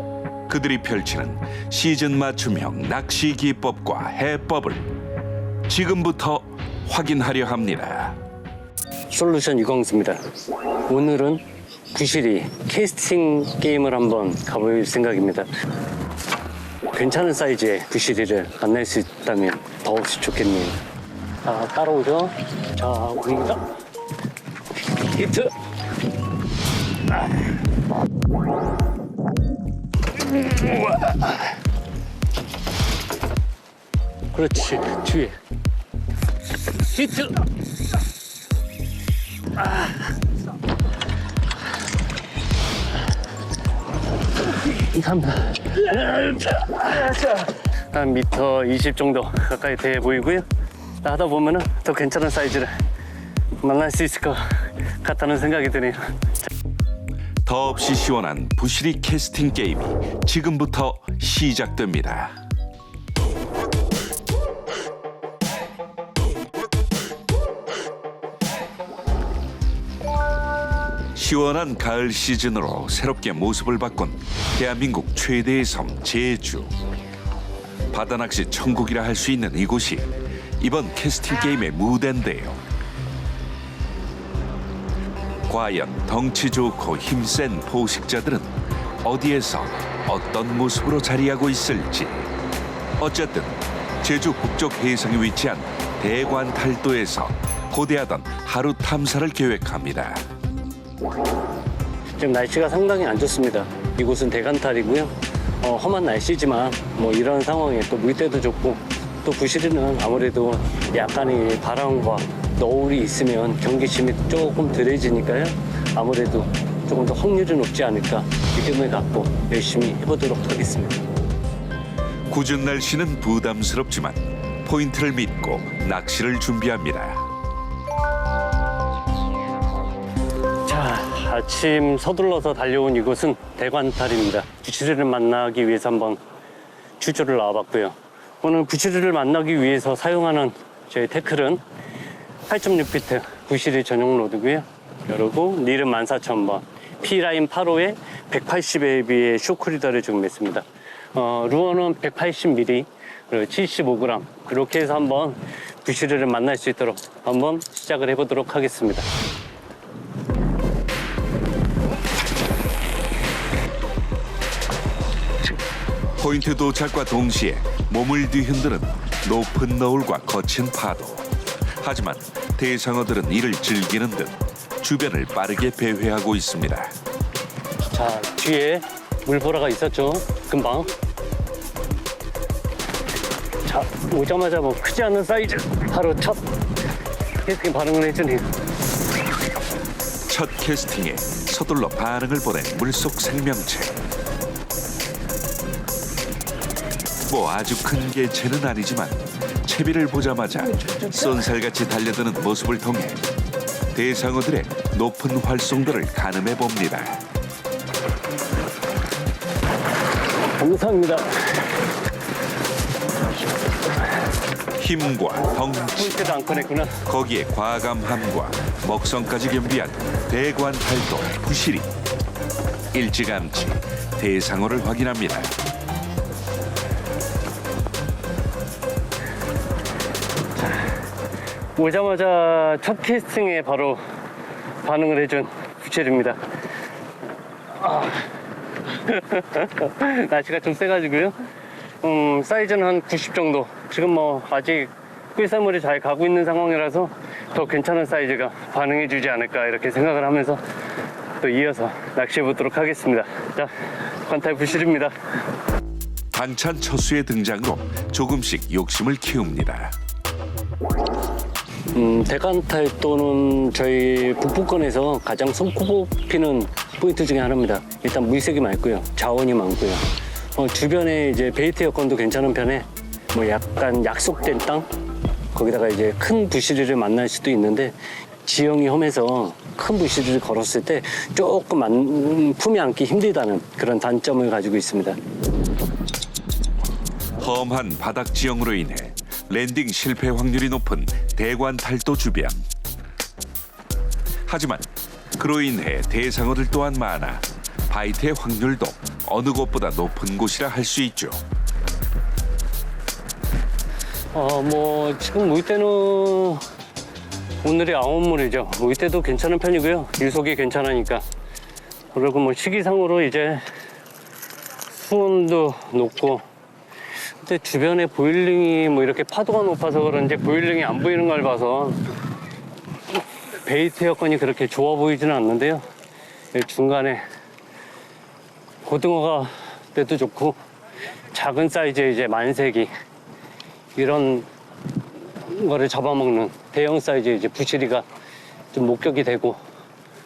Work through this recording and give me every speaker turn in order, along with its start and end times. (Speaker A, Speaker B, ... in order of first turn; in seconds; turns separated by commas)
Speaker A: 0.5-4.9, Speaker A: 5.7-8.2, Speaker B: 9.1-10.2, Speaker B: 10.9-15.5, Speaker B: 16.9-20.8, Speaker B: 21.4-23.6, Speaker B: 25.1-25.5, Speaker B: 30.5-31.2, Speaker B: 34.3-35.4, Speaker B: 36.8-37.4, Speaker B: 44.8-50.4, Speaker B: 51.0-52.7, Speaker B: 53.6-56.5, Speaker A: 57.5-62.3, Speaker A: 71.1-76.7, Speaker A: 77.9-82.6, Speaker A: 85.5-88.5, Speaker A: 89.0-92.3, Speaker A: 93.0-100.2, Speaker B: 102.2-121.0, Speaker A: 122.3-127.2, Speaker B: 130.6-136.2, Speaker B: 137.0-141.6, Speaker B: 142.5-159.1, Speaker A: 166.2-176.9, Speaker B: 177.9-180.9, Speaker B: 183.6-186.4, Speaker B: 187.4-188.5, Speaker A: 190.3-194.0, Speaker A: 197.3-203.2, Speaker A: 203.9-207.2, Speaker B: 210.5-211.7, Speaker A: 214.7-216.1, Speaker B: 215.9-217.0, Speaker A: 217.1-221.9, Speaker A: 222.9-225.5, Speaker B: 230.6-230.9, Speaker B: 231.8-234.0, Speaker B: 234.8-236.4, Speaker B: 237.8-238.3, Speaker B: 238.9-241.3, Speaker B: 242.0-250.6, Speaker B: 251.4-253.7, Speaker B: 254.3-255.1, Speaker A: 256.3-259.9, Speaker B: 261.9-274.9, Speaker B: 275.5-285.2, Speaker A: 287.4-292.6, Speaker A: 294.4-301.4, Speaker B: 304.3-306.6, Speaker B: 307.6-311.2, Speaker B: 312.1-313.6, Speaker B: 314.9-316.4, Speaker B: 317.4-322.0, Speaker B: 323.6-325.9, Speaker B: 326.5-327.2, Speaker B: 328.8-330.6, Speaker B: 331.3-332.9, Speaker B: 333.9-334.5, Speaker B: 335.4-338.1, Speaker B: 338.7-339.6